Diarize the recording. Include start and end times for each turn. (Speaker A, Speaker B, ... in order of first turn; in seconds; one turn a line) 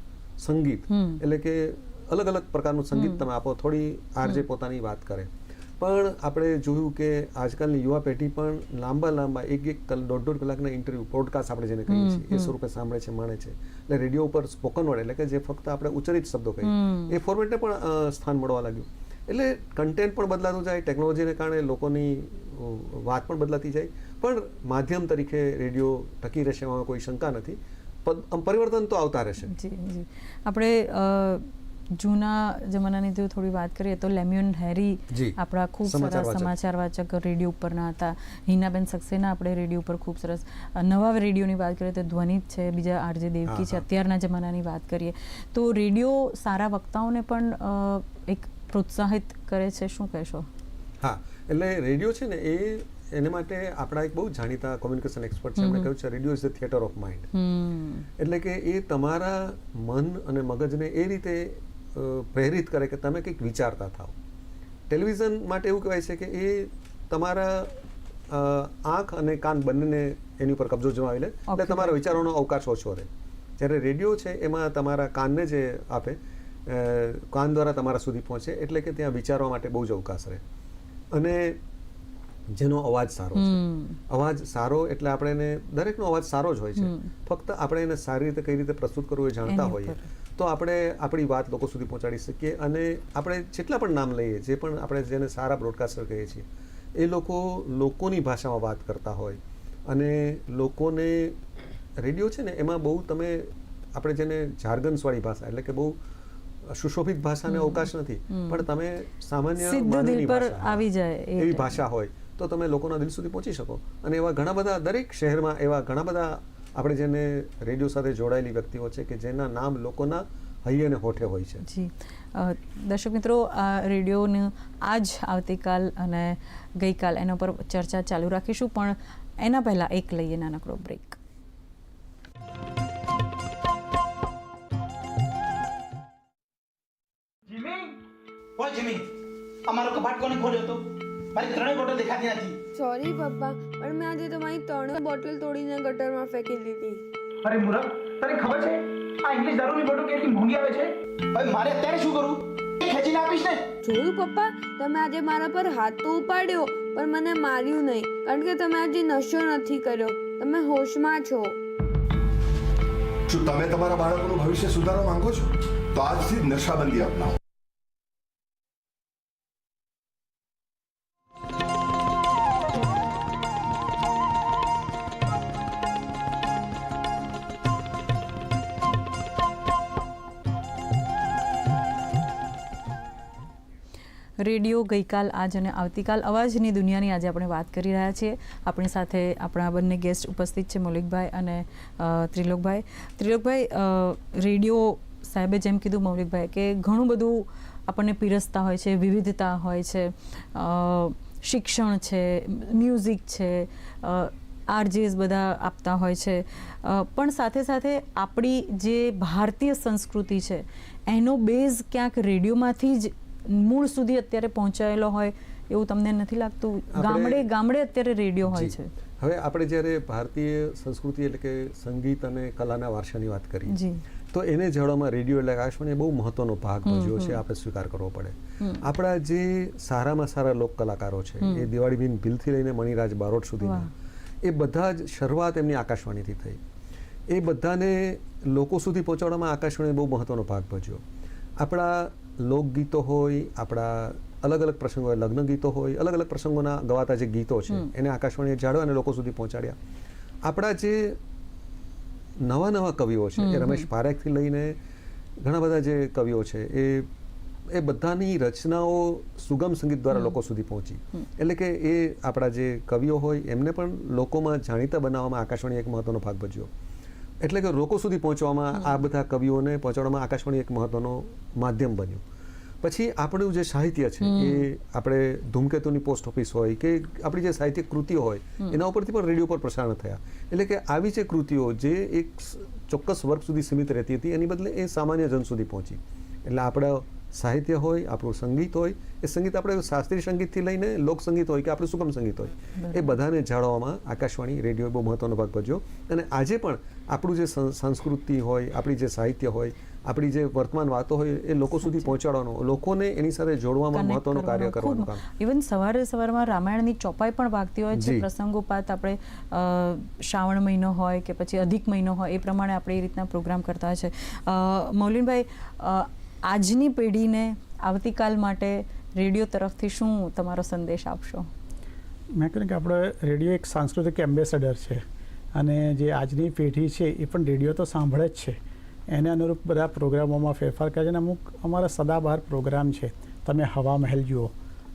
Speaker A: 0.4-29.5
Speaker B: 0.9-1.2
Speaker B: 2.9-3.2
Speaker B: 11.9-12.5
Speaker B: 16.6-17.1
Speaker B: 29.5-50.5
Speaker A: 35.1-36.5
Speaker A: 43.5-43.8
Speaker A: 51.0-57.3
Speaker B: 55.6-55.9
Speaker B: 57.3-58.1
Speaker A: 58.2-64.1
Speaker A: 64.9-67.8
Speaker A: 68.3-73.1
Speaker B: 71.5-72.2
Speaker A: 73.6-80.4
Speaker A: 81.1-81.6
Speaker A: 82.5-96.4
Speaker B: 83.4-84.0
Speaker B: 86.8-87.1
Speaker B: 89.5-90.0
Speaker A: 97.0-101.4
Speaker A: 102.0-106.0
Speaker A: 106.7-110.8
Speaker B: 107.5-108.6
Speaker B: 109.6-111.8
Speaker A: 111.4-121.6
Speaker B: 121.7-131.2
Speaker C: 137.5-137.9
Speaker C: 138.6-139.1
Speaker C: 139.7-142.6
Speaker D: 142.7-147.0
Speaker C: 147.4-153.6
Speaker D: 153.8-161.6
Speaker E: 163.3-167.4
Speaker B: 184.4-218.9
Speaker A: 216.9-217.5
Speaker A: 218.5-223.8
Speaker B: 223.7-224.0
Speaker A: 224.3-233.9
Speaker B: 226.8-227.4
Speaker B: 231.4-231.7
Speaker B: 233.6-233.9
Speaker A: 234.4-236.6
Speaker A: 237.3-241.0
Speaker A: 241.6-249.8
Speaker A: 250.4-251.2
Speaker A: 252.4-254.8
Speaker B: 253.4-253.9
Speaker A: 255.4-257.1
Speaker A: 257.7-266.7
Speaker A: 267.4-272.2
Speaker B: 268.7-269.0
Speaker A: 272.8-305.2
Speaker B: 274.2-274.6
Speaker B: 292.8-293.1
Speaker B: 301.8-302.1
Speaker B: 303.9-321.5
Speaker A: 307.9-308.3
Speaker F: 322.3-325.0
Speaker F: 325.5-328.6
Speaker F: 329.1-334.5